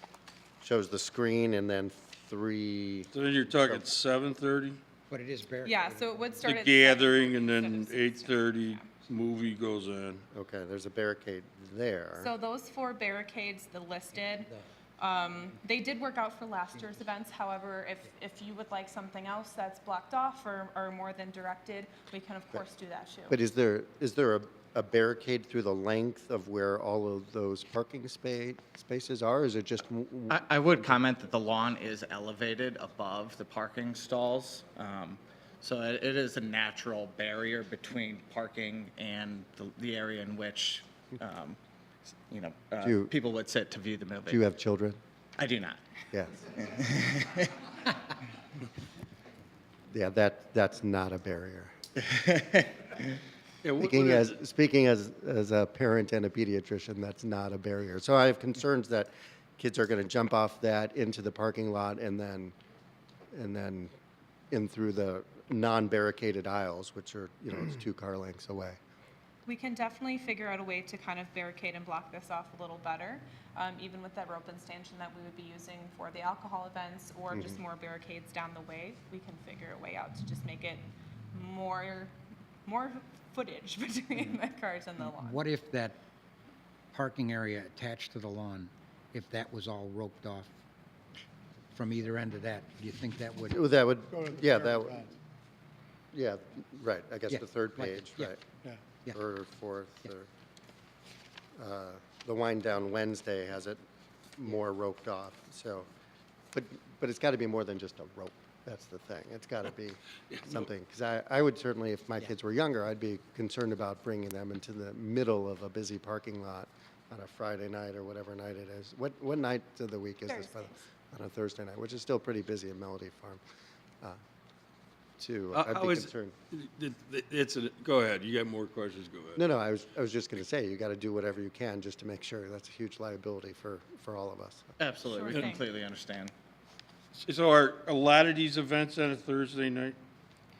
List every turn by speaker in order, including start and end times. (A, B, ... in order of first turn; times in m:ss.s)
0:00.6-0:03.9 A
0:03.1-0:04.8 B
0:05.1-0:06.4 C
0:05.6-0:08.9 D
0:06.4-0:10.2 B
0:10.3-0:12.3 A
0:12.2-0:23.4 D
0:14.2-0:14.5 C
0:23.3-0:31.0 A
0:30.3-0:41.6 E
0:42.3-0:44.4 E
0:42.8-0:43.1 A
0:44.3-0:45.0 A
0:45.4-0:45.8 E
0:46.5-0:47.5 E
0:49.9-0:51.7 A
0:52.0-0:52.9 E
0:53.6-0:54.4 B
0:53.8-1:02.5 A
1:03.3-1:03.9 A
1:04.5-1:08.8 A
1:09.4-1:22.1 D
1:17.3-1:17.6 A
1:22.6-1:25.4 D
1:25.0-1:26.0 C
1:26.9-1:30.5 C
1:31.7-1:33.6 C
1:33.5-1:35.1 A
1:34.1-1:35.1 C
1:36.1-1:38.4 A
1:37.3-1:39.2 C
1:39.1-1:40.3 A
1:41.6-1:43.8 A
1:44.4-1:45.9 A
1:46.5-2:03.4 A
1:50.3-1:50.7 B
2:00.3-2:00.8 D
2:05.2-2:06.3 A
2:05.5-2:09.4 B
2:09.4-2:14.7 A
2:14.8-2:16.3 E
2:15.1-2:15.6 D
2:17.1-2:20.0 B